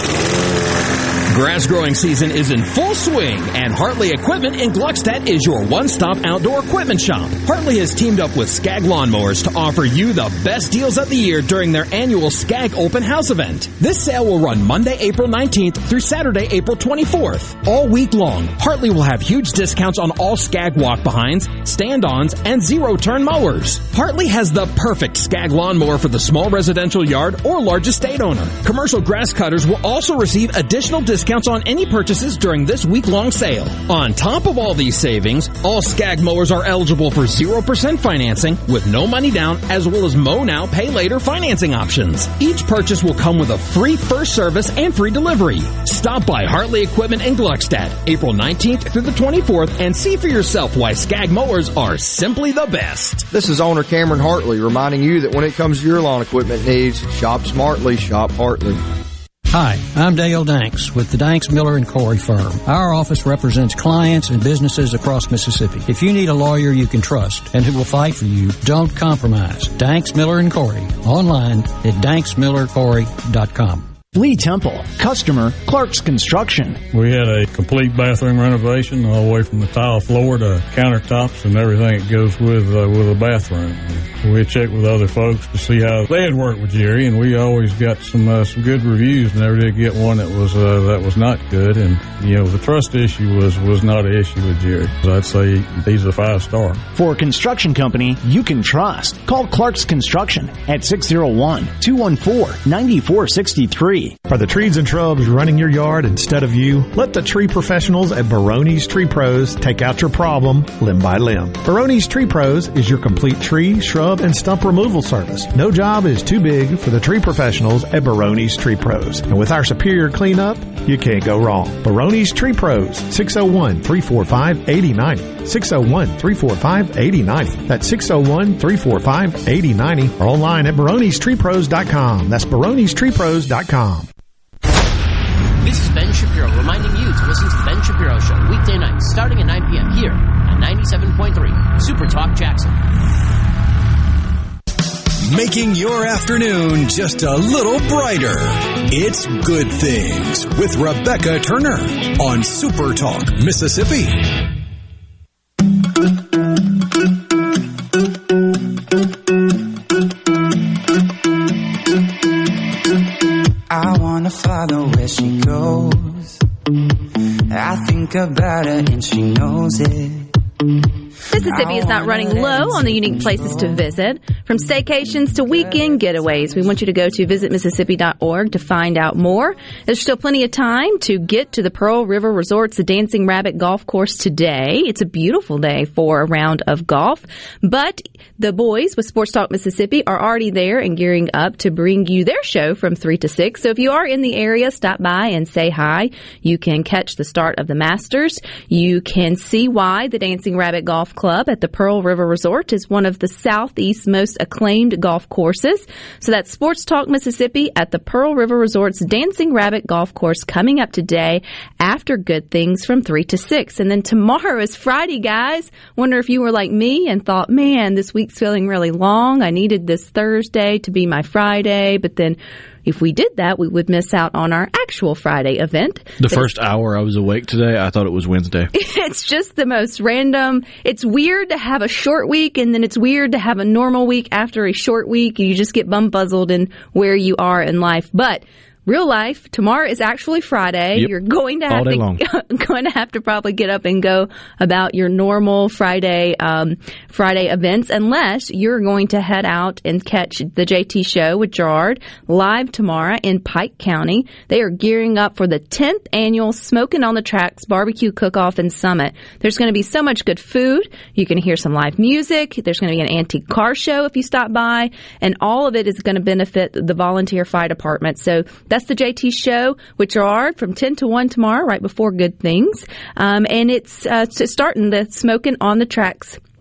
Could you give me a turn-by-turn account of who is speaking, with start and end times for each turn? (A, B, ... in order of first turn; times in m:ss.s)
0:01.3-0:53.2 A
0:53.3-0:58.8 B
0:59.5-1:13.9 C
1:14.1-1:16.8 D
1:16.9-1:36.8 E
1:36.9-1:44.2 D
1:44.3-2:14.1 F
2:15.6-2:22.8 G
2:25.3-2:34.2 H
2:43.7-2:46.4 I
2:47.5-2:50.3 I
2:51.3-3:46.5 J
2:51.4-2:53.9 I
2:55.4-2:56.7 I
3:46.2-3:48.7 K
3:48.7-4:36.4 J
4:01.7-4:02.2 K